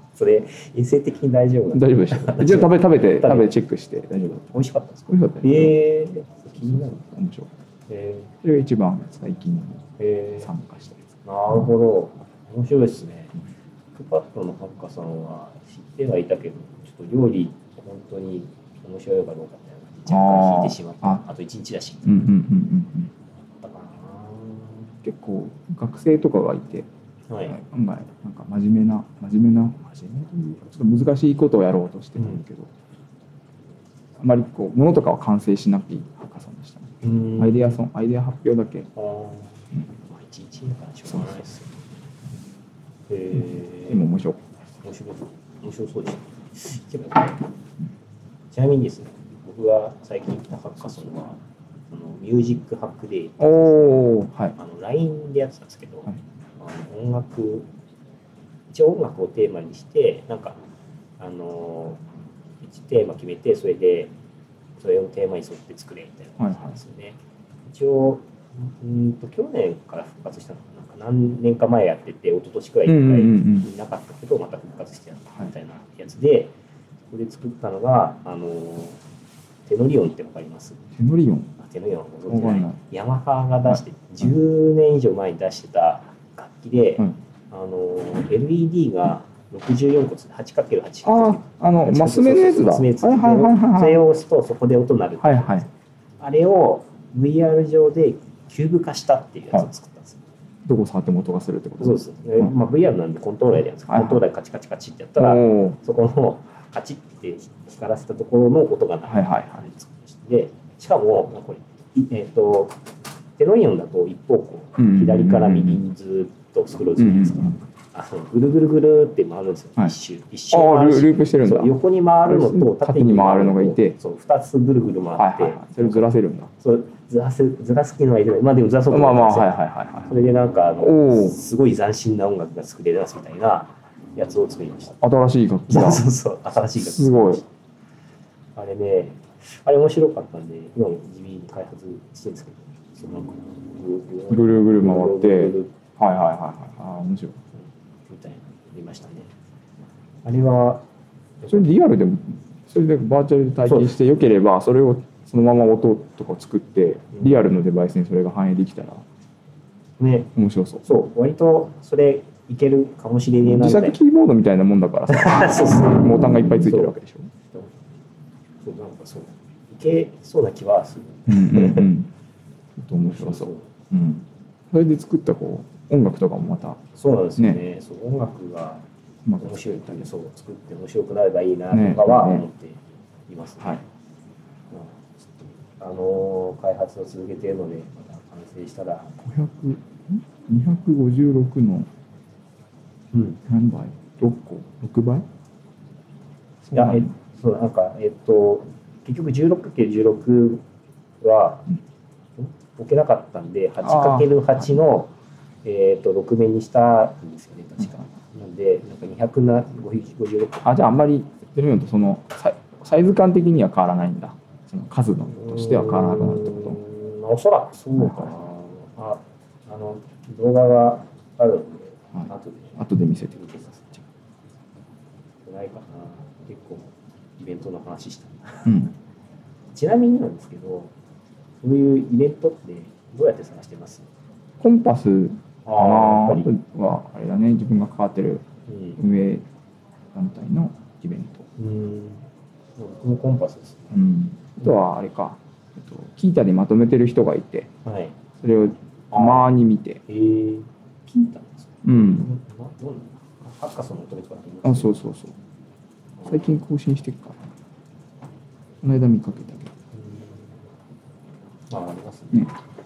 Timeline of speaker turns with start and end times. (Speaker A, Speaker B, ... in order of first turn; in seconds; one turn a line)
Speaker A: 0.1-3.5
Speaker B: 1.7-4.4
Speaker A: 4.1-7.1
Speaker B: 5.1-5.8
Speaker B: 6.6-7.5
Speaker A: 7.9-8.3
Speaker B: 8.4-9.8
Speaker A: 10.0-10.5
Speaker B: 10.4-11.1
Speaker A: 11.2-13.3
Speaker A: 13.9-22.2
Speaker B: 20.1-21.2
Speaker B: 22.0-23.1
Speaker A: 23.6-24.9
Speaker B: 25.0-26.9
Speaker A: 27.3-27.6
Speaker B: 27.5-32.7
Speaker A: 32.2-32.4
Speaker B: 34.2-38.9
Speaker A: 37.0-37.8
Speaker A: 39.0-41.8
Speaker A: 43.1-44.1
Speaker B: 43.9-44.4
Speaker A: 44.8-47.4
Speaker A: 48.5-51.4
Speaker B: 50.9-51.3
Speaker A: 51.9-54.0
Speaker B: 53.4-54.5
Speaker A: 54.5-57.7
Speaker A: 58.7-60.6
Speaker A: 61.2-62.0
Speaker A: 62.6-64.1
Speaker A: 64.8-76.5
Speaker B: 66.4-66.8
Speaker B: 72.9-73.7
Speaker A: 77.1-79.0
Speaker A: 79.7-80.8
Speaker B: 81.0-81.5
Speaker A: 81.6-100.2
Speaker B: 82.3-82.8
Speaker B: 91.0-94.0
Speaker B: 95.2-95.7
Speaker B: 100.7-102.5
Speaker A: 101.8-112.8
Speaker B: 103.9-104.2
Speaker B: 105.2-105.8
Speaker B: 109.0-109.7
Speaker A: 113.4-126.0
Speaker B: 114.8-115.8
Speaker B: 117.0-117.5
Speaker B: 120.5-124.0
Speaker B: 125.2-126.5
Speaker A: 126.6-129.5
Speaker B: 128.9-130.1
Speaker A: 130.1-135.0
Speaker B: 130.8-131.4
Speaker B: 135.0-136.1
Speaker A: 135.7-137.5
Speaker B: 136.8-137.4
Speaker A: 138.6-145.7
Speaker B: 144.3-147.4
Speaker A: 147.6-149.3
Speaker A: 150.2-150.8
Speaker A: 151.4-151.7
Speaker B: 151.5-159.0
Speaker A: 153.7-153.9
Speaker A: 157.1-157.4
Speaker A: 160.0-160.3
Speaker B: 160.3-160.9
Speaker A: 160.8-164.0
Speaker B: 163.4-167.3
Speaker A: 165.1-166.9
Speaker A: 167.5-167.8
Speaker A: 168.6-171.9
Speaker B: 171.3-172.1
Speaker B: 172.8-176.8
Speaker A: 173.0-173.7
Speaker A: 176.9-178.8
Speaker B: 179.2-180.1
Speaker A: 179.4-183.8
Speaker B: 181.7-182.5
Speaker A: 184.7-189.2
Speaker B: 189.2-191.9
Speaker A: 193.1-193.4
Speaker B: 193.5-195.2
Speaker B: 196.6-197.1
Speaker A: 196.7-200.6
Speaker A: 201.2-201.7
Speaker A: 202.4-205.1
Speaker B: 203.8-204.6
Speaker A: 205.6-210.7
Speaker B: 210.6-216.8
Speaker A: 215.3-222.8
Speaker B: 218.0-218.3
Speaker B: 222.1-223.4
Speaker A: 223.3-224.0
Speaker A: 225.4-228.8
Speaker B: 228.7-228.9
Speaker A: 229.7-230.9
Speaker A: 231.6-234.1
Speaker B: 234.6-238.4
Speaker A: 235.6-236.5
Speaker A: 238.7-239.0
Speaker B: 239.0-239.4
Speaker B: 240.1-241.5
Speaker A: 241.6-244.0
Speaker B: 243.9-247.7
Speaker A: 247.8-248.1
Speaker B: 248.4-250.0
Speaker A: 249.1-249.5
Speaker A: 250.1-255.0
Speaker B: 251.8-252.3
Speaker B: 254.6-255.3
Speaker A: 256.2-256.6
Speaker B: 256.3-257.5
Speaker B: 258.8-259.7
Speaker A: 259.9-260.5
Speaker A: 261.7-262.5